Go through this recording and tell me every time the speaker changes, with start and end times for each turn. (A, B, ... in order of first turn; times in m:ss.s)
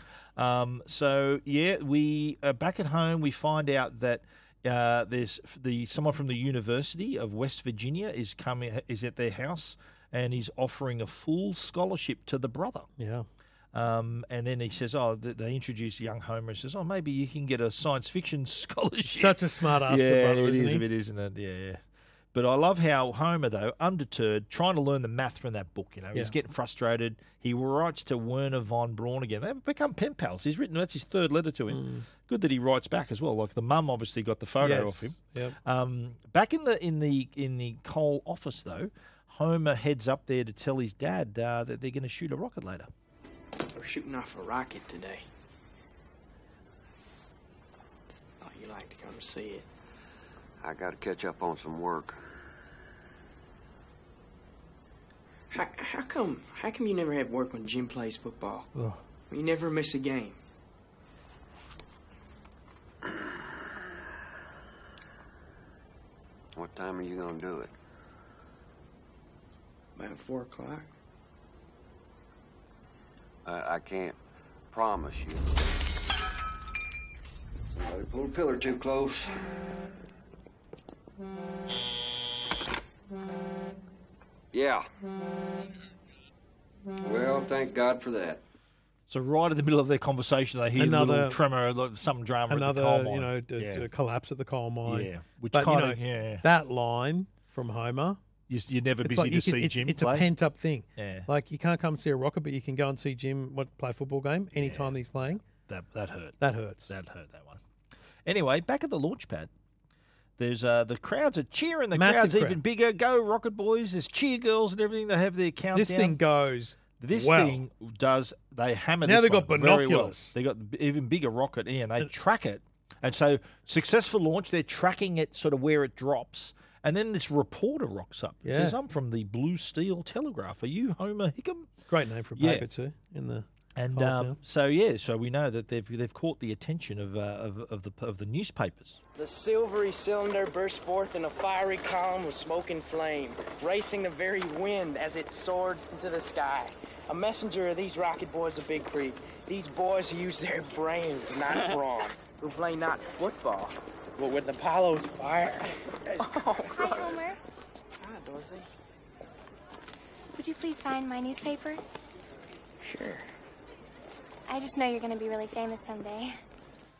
0:00.4-0:12.9 A
0:13.0-0:13.3 B
0:13.7-0:21.8 A
0:19.1-0:20.8 B
0:22.3-0:42.9 A
0:31.7-0:32.0 B
0:34.6-0:35.6 B
0:43.7-0:45.2 C
0:48.4-0:49.7 C
0:50.6-0:52.2 D
0:55.5-0:58.7 C
0:58.7-0:59.0 B
0:59.3-1:00.4 C
1:06.5-1:07.7 D
1:10.0-1:10.9 C
1:13.4-1:14.2 D
1:14.7-1:15.6 D
1:17.7-1:19.3 D
1:24.5-1:24.8 D
1:27.0-1:28.4 D
1:29.1-1:33.9 A
1:30.8-1:31.4 B
1:32.5-1:38.2 B
1:34.8-1:36.4 A
1:38.5-1:40.3 A
1:39.0-1:45.4 B
1:41.0-1:41.3 A
1:44.5-1:47.6 A
1:46.4-1:46.9 B
1:48.2-1:49.5 A
1:50.4-1:56.2 A
1:51.9-1:52.6 B
1:55.7-1:57.6 B
1:57.0-2:11.7 A
1:59.0-2:00.3 B
2:08.4-2:08.8 B
2:11.9-2:14.4 B
2:12.4-2:12.6 A
2:13.8-2:19.0 A
2:19.2-2:37.3 C
2:36.6-2:37.4 E
2:38.0-2:38.7 C
2:40.4-2:41.8 E
2:42.8-2:43.2 C
2:44.5-2:46.4 E